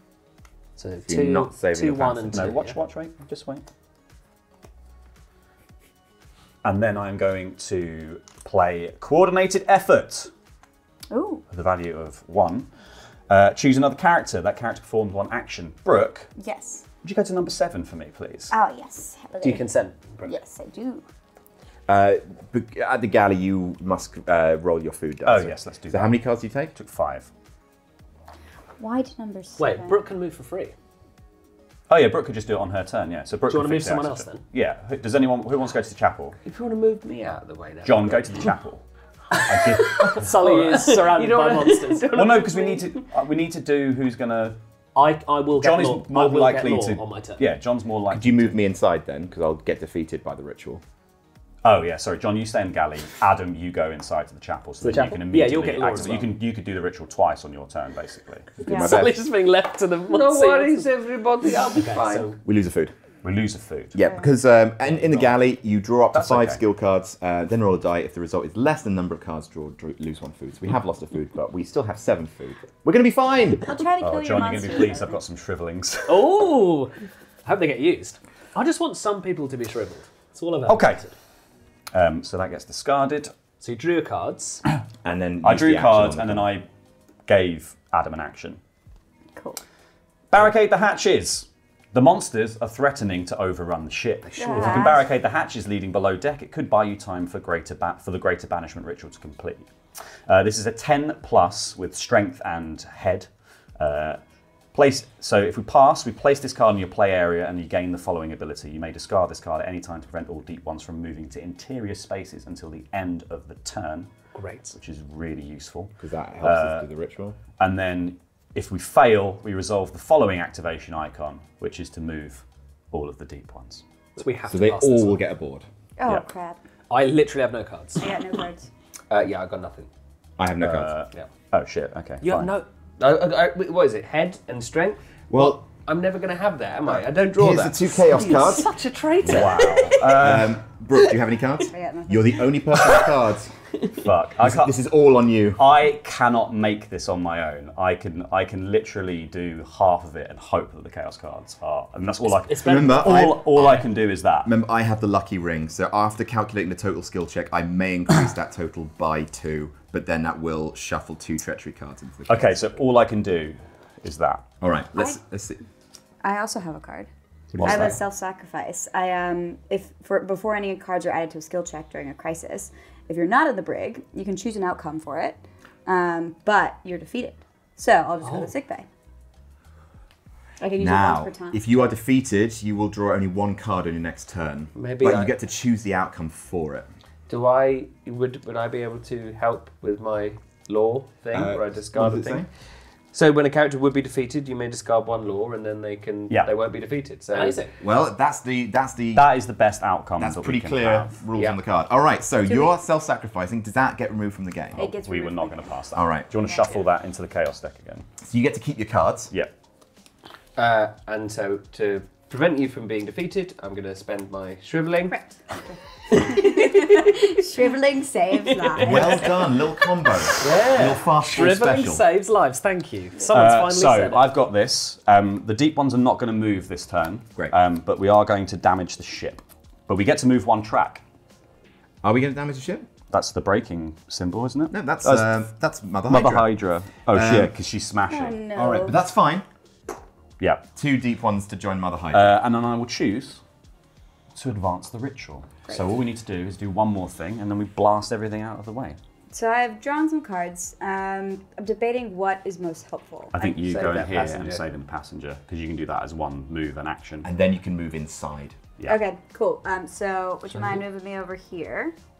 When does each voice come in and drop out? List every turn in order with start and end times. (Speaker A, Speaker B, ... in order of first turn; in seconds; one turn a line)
Speaker A: 0.8-1.4
Speaker B: 0.8-2.8
Speaker C: 1.1-2.5
Speaker D: 2.3-3.6
Speaker D: 6.6-10.3
Speaker E: 11.1-11.4
Speaker D: 11.5-12.7
Speaker D: 13.3-16.3
Speaker E: 16.4-16.8
Speaker D: 17.0-18.5
Speaker E: 18.5-19.7
Speaker B: 19.4-20.4
Speaker E: 20.2-21.0
Speaker C: 21.9-26.7
Speaker D: 25.2-27.3
Speaker E: 28.8-30.0
Speaker B: 29.6-30.7
Speaker D: 31.9-36.4
Speaker B: 33.5-34.4
Speaker A: 36.4-38.5
Speaker D: 37.8-40.2
Speaker A: 39.3-42.9
Speaker B: 39.7-42.4
Speaker D: 42.1-44.6
Speaker B: 44.9-47.4
Speaker D: 45.6-48.6
Speaker C: 48.1-50.8
Speaker D: 51.6-58.5
Speaker B: 54.8-56.4
Speaker B: 58.6-60.9
Speaker E: 58.6-59.0
Speaker C: 58.6-59.2
Speaker A: 60.1-62.3
Speaker B: 61.6-62.4
Speaker C: 62.4-62.9
Speaker D: 63.2-64.0
Speaker C: 63.9-73.7
Speaker E: 64.0-64.3
Speaker D: 64.8-65.3
Speaker D: 66.1-66.6
Speaker E: 73.6-75.2
Speaker D: 74.0-76.3
Speaker B: 76.1-76.9
Speaker B: 77.4-81.1
Speaker D: 80.7-81.0
Speaker D: 81.9-83.3
Speaker B: 83.6-84.6
Speaker C: 85.0-86.5
Speaker D: 85.4-86.7
Speaker D: 87.2-88.6
Speaker E: 89.3-89.6
Speaker D: 90.3-99.7
Speaker B: 94.2-95.0
Speaker E: 94.4-95.0
Speaker D: 100.3-104.2
Speaker D: 104.7-114.1
Speaker B: 114.3-114.7
Speaker D: 114.7-116.9
Speaker C: 116.0-117.4
Speaker D: 117.6-123.8
Speaker B: 124.2-125.2
Speaker C: 124.5-125.7
Speaker E: 126.0-126.6
Speaker B: 126.9-128.1
Speaker E: 128.0-128.7
Speaker A: 129.1-129.9
Speaker C: 130.4-130.9
Speaker D: 130.6-132.5
Speaker B: 132.2-132.7
Speaker A: 133.0-139.8
Speaker C: 135.3-135.6
Speaker C: 136.9-138.7
Speaker B: 138.1-139.9
Speaker D: 139.2-140.6
Speaker C: 140.1-143.5
Speaker E: 141.7-142.4
Speaker D: 144.0-144.8
Speaker C: 144.4-145.7
Speaker D: 145.6-154.5
Speaker B: 152.2-153.3
Speaker C: 152.6-153.9
Speaker C: 154.4-162.7
Speaker D: 162.3-164.4
Speaker C: 164.6-165.6
Speaker E: 166.2-167.1
Speaker D: 167.5-168.0
Speaker C: 167.5-167.9
Speaker E: 167.6-178.9
Speaker B: 178.2-178.5
Speaker E: 180.6-181.6
Speaker C: 180.8-186.9
Speaker A: 184.8-185.3
Speaker A: 187.3-192.5
Speaker C: 191.3-192.5
Speaker A: 193.1-197.6
Speaker B: 197.3-197.7
Speaker C: 197.8-199.3
Speaker D: 199.1-201.2
Speaker C: 200.2-204.9
Speaker E: 204.8-205.8
Speaker D: 205.0-208.1
Speaker C: 205.9-206.3
Speaker C: 208.2-209.3
Speaker A: 210.6-215.2
Speaker E: 215.2-215.6
Speaker A: 216.1-217.4
Speaker E: 216.1-219.5
Speaker A: 218.4-219.3
Speaker C: 218.8-222.0
Speaker A: 220.4-220.9
Speaker B: 220.4-224.3
Speaker D: 223.3-231.0
Speaker C: 232.0-232.9
Speaker D: 233.1-235.3
Speaker C: 234.7-236.5
Speaker D: 236.1-238.4
Speaker C: 237.1-237.5
Speaker E: 238.1-239.0
Speaker C: 238.5-239.4
Speaker C: 240.8-242.3
Speaker D: 242.1-243.4
Speaker D: 244.3-249.0
Speaker E: 249.3-253.6
Speaker D: 253.3-257.3
Speaker A: 253.6-254.6
Speaker C: 257.2-258.6
Speaker E: 258.9-261.9